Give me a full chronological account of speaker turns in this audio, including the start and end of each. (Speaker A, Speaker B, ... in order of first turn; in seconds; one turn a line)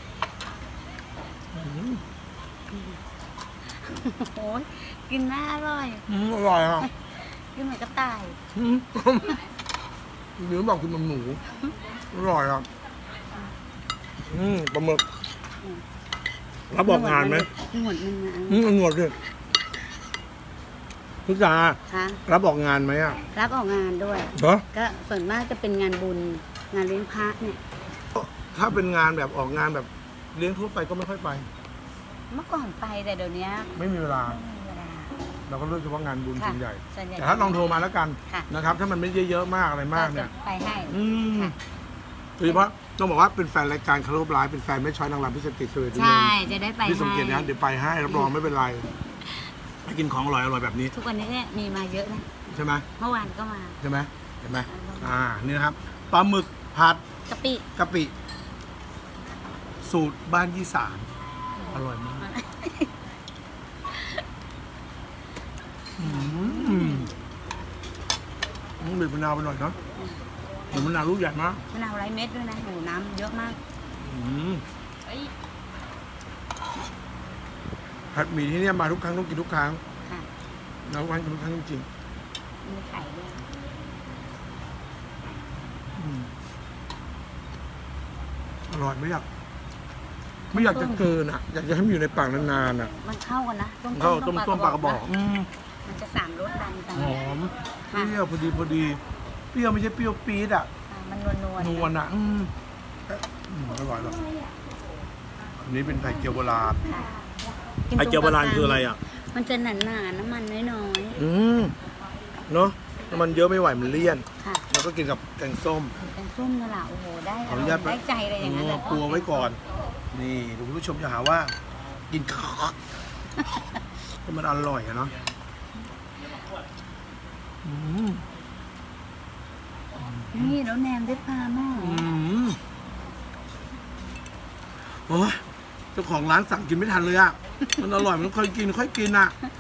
Speaker A: 1.5-2.0
Speaker B: 2.7-3.0
Speaker B: 3.6-6.1
Speaker A: 6.1-6.9
Speaker B: 6.8-8.4
Speaker A: 8.5-9.4
Speaker A: 10.4-11.4
Speaker A: 12.1-12.7
Speaker A: 14.3-15.1
Speaker A: 16.7-17.5
Speaker B: 16.8-18.7
Speaker A: 18.5-19.1
Speaker A: 21.2-23.2
Speaker B: 21.9-22.2
Speaker B: 23.3-27.6
Speaker A: 24.4-24.6
Speaker A: 28.1-31.5
Speaker B: 32.3-35.2
Speaker A: 33.8-34.4
Speaker A: 35.5-40.3
Speaker B: 36.4-38.5
Speaker B: 39.9-41.5
Speaker A: 40.9-41.5
Speaker A: 42.4-48.9
Speaker B: 45.9-47.5
Speaker B: 48.1-48.4
Speaker A: 49.9-50.9
Speaker B: 50.9-52.3
Speaker A: 52.5-52.9
Speaker B: 53.0-53.8
Speaker A: 53.8-57.0
Speaker B: 54.7-55.2
Speaker B: 57.3-57.7
Speaker A: 57.8-58.1
Speaker A: 59.8-61.1
Speaker B: 61.5-62.9
Speaker A: 61.7-62.3
Speaker B: 63.9-64.2
Speaker A: 66.0-67.1
Speaker B: 66.0-67.1
Speaker A: 68.8-69.8
Speaker B: 70.0-70.2
Speaker A: 70.7-71.6
Speaker B: 71.7-73.6
Speaker A: 73.9-74.6
Speaker A: 78.1-79.8
Speaker A: 80.9-81.9
Speaker B: 82.6-83.5
Speaker A: 86.0-86.3
Speaker A: 88.7-89.3
Speaker B: 90.5-91.1
Speaker A: 90.5-92.9
Speaker B: 92.5-95.0
Speaker A: 93.9-95.5
Speaker B: 95.8-97.3
Speaker A: 96.9-99.0
Speaker B: 97.9-98.2
Speaker A: 99.5-100.7
Speaker B: 100.9-101.9
Speaker A: 101.6-102.5
Speaker A: 103.1-104.2
Speaker A: 105.6-106.8
Speaker B: 106.8-107.2
Speaker B: 107.9-111.2
Speaker A: 108.0-109.0
Speaker A: 111.2-111.7
Speaker A: 112.5-116.0
Speaker B: 114.4-114.7
Speaker B: 116.0-119.5
Speaker A: 117.5-119.6
Speaker A: 120.1-121.5
Speaker A: 122.1-122.8
Speaker A: 124.2-125.1
Speaker A: 127.6-128.2
Speaker A: 130.0-130.6
Speaker B: 130.3-132.1
Speaker A: 131.8-132.6
Speaker A: 134.9-135.4
Speaker A: 135.9-139.3